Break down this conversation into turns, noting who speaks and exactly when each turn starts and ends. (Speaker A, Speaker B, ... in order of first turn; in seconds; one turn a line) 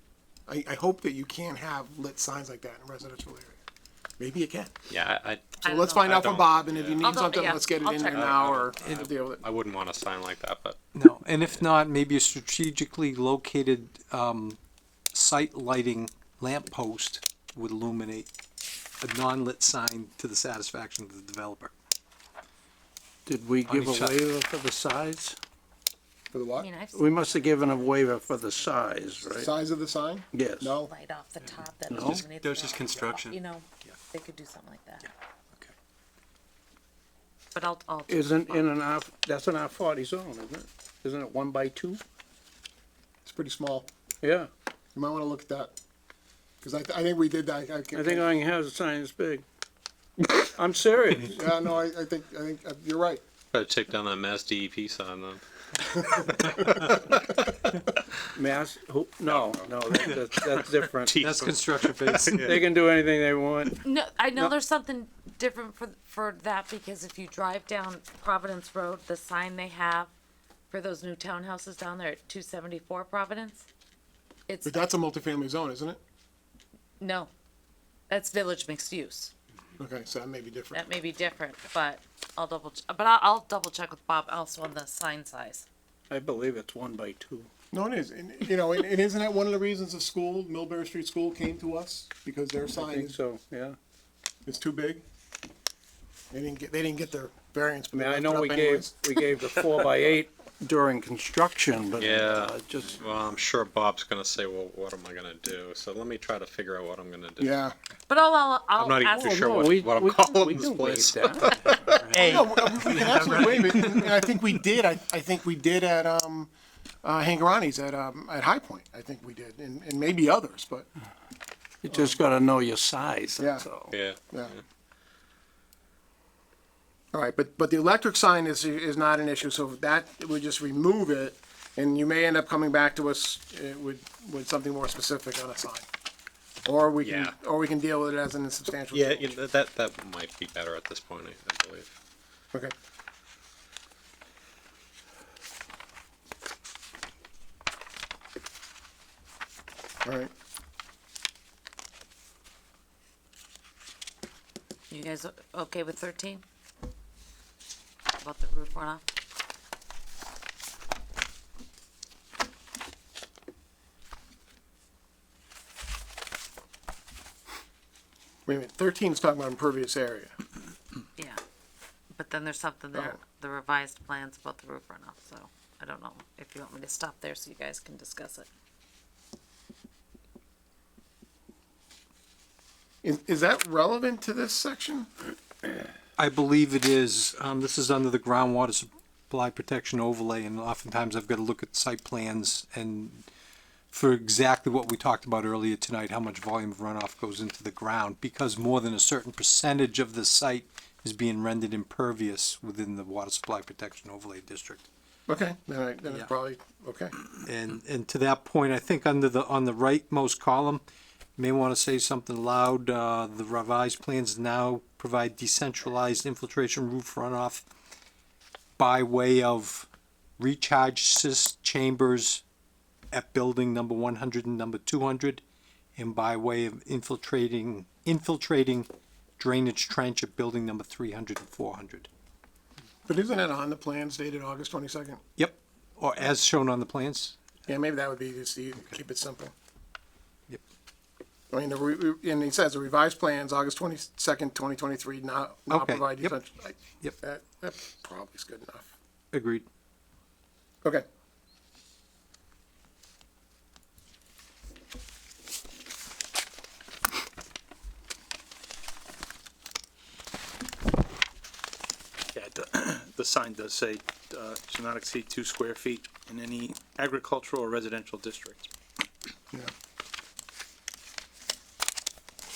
Speaker A: 0.5-3.6
Speaker A: 4.2-4.7
Speaker B: 4.9-10.8
Speaker C: 5.6-6.2
Speaker A: 5.6-9.4
Speaker C: 7.0-8.3
Speaker D: 10.9-14.6
Speaker D: 15.1-18.3
Speaker D: 19.0-21.7
Speaker E: 23.3-25.4
Speaker D: 23.7-24.2
Speaker A: 26.3-26.7
Speaker C: 26.6-27.9
Speaker E: 26.9-29.5
Speaker A: 29.3-30.9
Speaker E: 30.3-30.8
Speaker C: 30.8-35.1
Speaker E: 31.9-32.2
Speaker D: 31.9-34.0
Speaker D: 35.0-35.7
Speaker C: 37.5-38.7
Speaker E: 38.1-42.0
Speaker A: 43.2-43.9
Speaker E: 44.2-44.5
Speaker A: 45.0-45.7
Speaker A: 46.6-48.3
Speaker E: 47.9-49.4
Speaker E: 50.2-51.4
Speaker A: 51.2-53.2
Speaker B: 53.5-57.3
Speaker E: 58.4-61.3
Speaker B: 59.3-60.6
Speaker F: 61.0-62.3
Speaker D: 61.2-62.6
Speaker E: 62.3-64.5
Speaker C: 63.8-70.1
Speaker C: 70.7-73.7
Speaker C: 74.5-74.9
Speaker A: 74.7-76.0
Speaker C: 77.0-77.3
Speaker C: 78.1-79.3
Speaker A: 79.8-80.8
Speaker C: 80.7-85.7
Speaker E: 86.1-87.5
Speaker A: 87.7-93.2
Speaker E: 92.7-93.8
Speaker A: 94.5-95.0
Speaker A: 96.3-98.9
Speaker E: 97.9-103.0
Speaker B: 102.0-107.6
Speaker A: 107.4-107.8
Speaker C: 108.1-109.7
Speaker B: 108.8-112.4
Speaker E: 109.1-112.2
Speaker D: 112.1-114.2
Speaker A: 112.2-116.5
Speaker B: 112.9-113.8
Speaker A: 117.0-120.9
Speaker E: 121.8-124.0
Speaker A: 121.9-122.2
Speaker A: 123.4-123.7
Speaker B: 123.9-124.6
Speaker A: 124.3-124.5
Speaker A: 127.1-135.9
Speaker A: 136.7-139.4
Speaker B: 137.0-137.4
Speaker B: 138.9-141.9
Speaker A: 150.0-150.3
Speaker C: 154.9-156.4
Speaker C: 158.2-159.0
Speaker A: 168.5-170.3
Speaker C: 172.2-178.5
Speaker A: 183.0-185.1
Speaker D: 186.2-193.3
Speaker D: 193.9-204.9
Speaker A: 205.3-207.2
Speaker D: 207.4-210.8
Speaker D: 211.4-217.6
Speaker D: 218.8-222.4
Speaker D: 223.1-225.4
Speaker D: 226.0-232.1
Speaker A: 233.1-235.2
Speaker D: 235.4-237.4
Speaker A: 237.7-239.5
Speaker A: 241.5-248.9
Speaker D: 245.7-246.3
Speaker D: 249.3-249.7
Speaker F: 262.3-268.7